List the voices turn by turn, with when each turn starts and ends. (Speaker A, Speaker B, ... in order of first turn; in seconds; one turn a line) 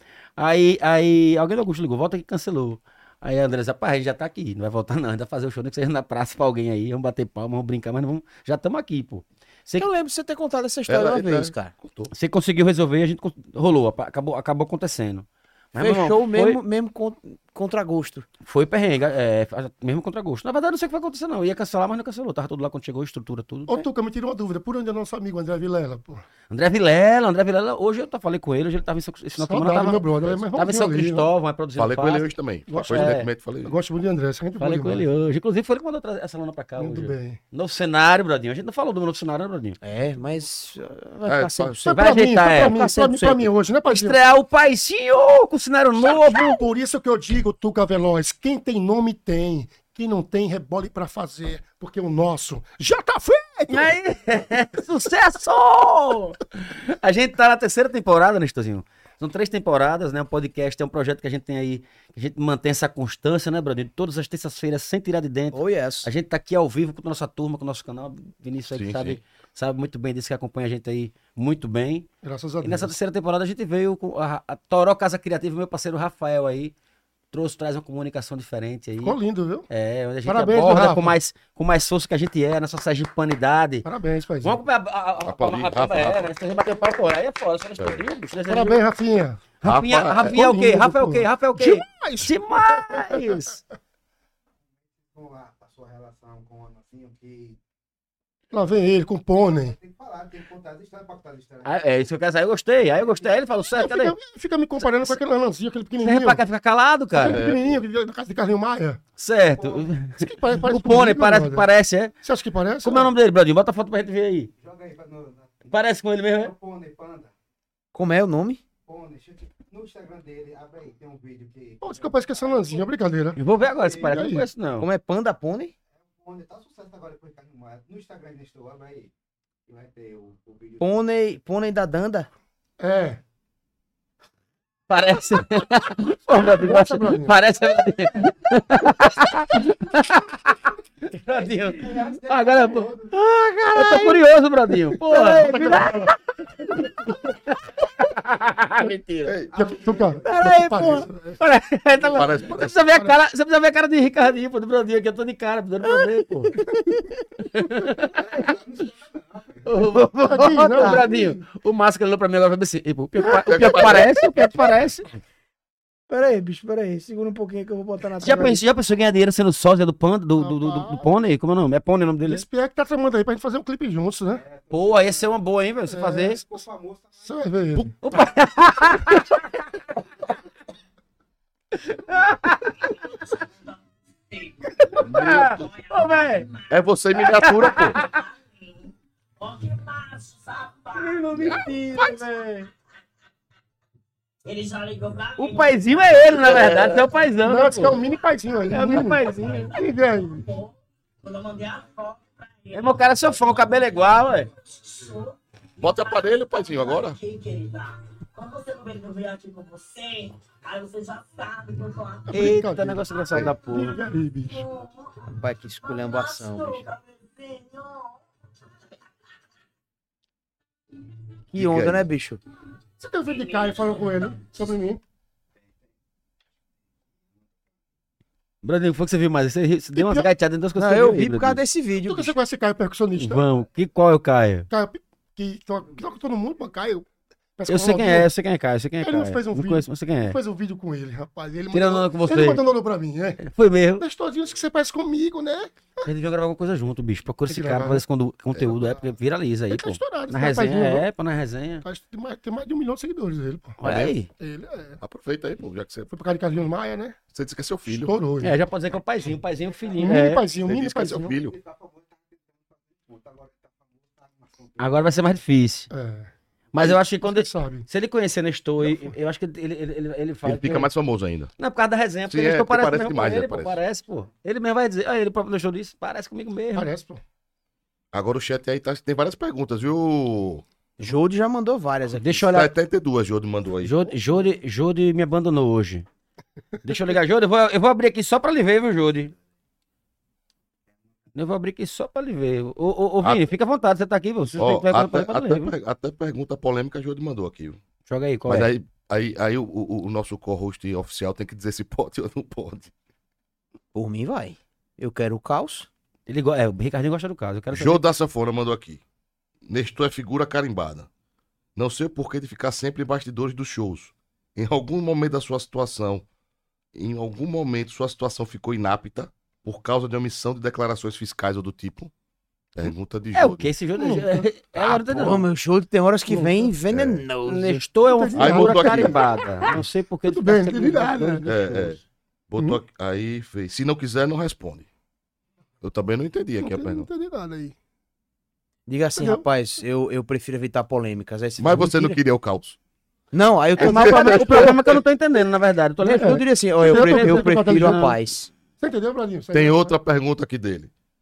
Speaker A: 0.4-9.9
Speaker B: 9.8-11.7
Speaker C: 10.9-12.1
Speaker A: 12.1-16.6
Speaker B: 15.8-18.3
Speaker A: 18.4-23.9
Speaker D: 23.7-26.2
Speaker A: 26.5-33.3
Speaker D: 29.4-31.3
Speaker C: 31.8-33.8
Speaker D: 32.7-35.0
Speaker A: 34.6-39.8
Speaker D: 36.8-37.4
Speaker B: 39.8-43.5
Speaker C: 41.3-41.8
Speaker D: 41.8-44.2
Speaker A: 41.9-42.8
Speaker A: 43.9-46.6
Speaker D: 46.0-54.0
Speaker A: 53.7-72.1
Speaker B: 65.5-66.1
Speaker C: 68.7-69.2
Speaker D: 72.2-72.9
Speaker A: 72.6-76.7
Speaker A: 77.3-79.2
Speaker D: 79.0-79.7
Speaker A: 79.7-83.9
Speaker D: 80.2-81.2
Speaker D: 83.8-84.6
Speaker A: 84.4-88.8
Speaker C: 85.2-86.3
Speaker D: 88.5-89.4
Speaker A: 89.6-93.6
Speaker C: 89.6-90.4
Speaker D: 90.3-93.6
Speaker E: 95.1-97.6
Speaker D: 98.5-99.8
Speaker E: 99.4-102.0
Speaker A: 101.6-104.2
Speaker E: 103.0-103.5
Speaker D: 103.8-106.4
Speaker A: 104.8-105.2
Speaker A: 106.0-107.4
Speaker D: 107.1-109.0
Speaker C: 107.2-107.7
Speaker A: 109.2-112.1
Speaker E: 109.5-110.0
Speaker D: 110.2-111.7
Speaker D: 112.2-113.1
Speaker A: 112.8-114.5
Speaker E: 114.6-115.6
Speaker A: 115.7-116.5
Speaker E: 116.3-117.3
Speaker B: 117.9-118.6
Speaker E: 118.8-122.9
Speaker D: 121.8-123.4
Speaker A: 123.4-124.9
Speaker E: 123.5-124.3
Speaker D: 124.0-124.5
Speaker B: 124.8-125.7
Speaker E: 126.0-129.1
Speaker E: 129.7-131.0
Speaker B: 130.8-132.3
Speaker D: 132.8-133.2
Speaker A: 134.9-146.2
Speaker D: 136.3-137.3
Speaker E: 141.4-143.1
Speaker B: 143.8-144.2
Speaker D: 145.0-147.2
Speaker A: 146.8-149.3
Speaker C: 149.3-149.5
Speaker E: 149.5-150.3
Speaker D: 149.5-151.4
Speaker A: 150.2-156.6
Speaker C: 152.1-152.8
Speaker D: 156.6-157.1
Speaker A: 157.5-158.6
Speaker E: 158.3-159.7
Speaker A: 159.7-165.1
Speaker D: 160.2-161.4
Speaker B: 160.6-161.1
Speaker C: 163.3-164.1
Speaker B: 166.1-168.6
Speaker A: 168.2-172.4
Speaker D: 170.4-171.1
Speaker D: 172.3-174.4
Speaker E: 174.3-175.4
Speaker A: 174.7-176.4
Speaker D: 175.9-176.4
Speaker E: 176.4-177.3
Speaker D: 177.2-177.9
Speaker A: 178.0-179.5
Speaker A: 181.8-182.8
Speaker F: 182.7-188.9
Speaker A: 185.0-186.5
Speaker C: 185.0-185.7
Speaker C: 186.7-188.0
Speaker A: 187.2-188.1
Speaker F: 189.4-192.6
Speaker A: 191.0-192.7
Speaker F: 194.5-197.1
Speaker A: 195.4-198.0
Speaker C: 196.4-197.1
Speaker D: 197.4-200.5
Speaker F: 197.8-212.6
Speaker A: 198.7-199.7
Speaker A: 202.7-204.5
Speaker C: 205.8-207.2
Speaker D: 212.3-213.1
Speaker A: 212.3-214.0
Speaker D: 213.7-214.7
Speaker F: 214.0-218.2
Speaker B: 215.4-216.9
Speaker B: 221.5-222.4
Speaker C: 221.6-222.1
Speaker D: 223.0-225.0
Speaker F: 223.3-224.5
Speaker A: 228.6-231.6
Speaker D: 229.9-230.3
Speaker B: 230.8-232.3
Speaker D: 232.0-233.4
Speaker A: 233.2-234.7
Speaker D: 234.7-238.3
Speaker A: 237.7-240.4
Speaker D: 239.0-246.0
Speaker A: 241.7-242.7
Speaker A: 243.4-244.1
Speaker A: 246.0-251.8
Speaker D: 247.5-248.0
Speaker C: 248.5-248.9
Speaker D: 249.7-251.1
Speaker D: 251.8-253.8
Speaker A: 253.8-254.3
Speaker C: 253.8-254.2
Speaker D: 254.4-255.0
Speaker C: 255.0-256.1
Speaker D: 256.1-257.2
Speaker C: 257.3-258.1
Speaker D: 257.9-258.6
Speaker A: 258.4-260.4
Speaker E: 259.7-260.2
Speaker D: 260.0-261.3
Speaker C: 260.7-261.6
Speaker E: 261.3-265.0
Speaker A: 264.8-265.9
Speaker D: 265.9-266.3
Speaker A: 266.7-270.9
Speaker D: 267.2-267.9
Speaker C: 270.4-271.5
Speaker A: 271.6-276.9
Speaker C: 272.3-273.8
Speaker D: 276.8-277.2
Speaker C: 278.1-280.6
Speaker B: 281.0-282.5
Speaker A: 282.1-282.7
Speaker C: 282.4-284.1
Speaker A: 283.8-286.1
Speaker A: 286.8-289.3
Speaker A: 291.3-295.7
Speaker C: 294.6-297.8
Speaker A: 298.1-298.7
Speaker C: 298.5-302.9
Speaker B: 303.9-305.9
Speaker A: 306.3-308.0
Speaker C: 307.7-309.0
Speaker C: 309.7-311.1
Speaker C: 311.8-316.3
Speaker C: 316.9-322.1
Speaker C: 322.8-323.7
Speaker A: 323.4-325.4
Speaker D: 324.0-324.3
Speaker B: 324.8-327.8
Speaker D: 326.3-326.7
Speaker C: 326.9-327.2
Speaker A: 327.4-332.0
Speaker D: 328.1-331.4
Speaker C: 328.4-329.9
Speaker C: 331.4-334.9
Speaker C: 335.8-337.1
Speaker D: 336.6-337.8
Speaker B: 338.9-342.2
Speaker D: 339.1-339.4
Speaker C: 341.6-342.8
Speaker B: 343.3-344.8
Speaker A: 343.8-348.2
Speaker C: 343.8-345.0
Speaker B: 346.0-348.5
Speaker D: 346.1-348.1
Speaker D: 348.8-349.9
Speaker C: 349.5-350.9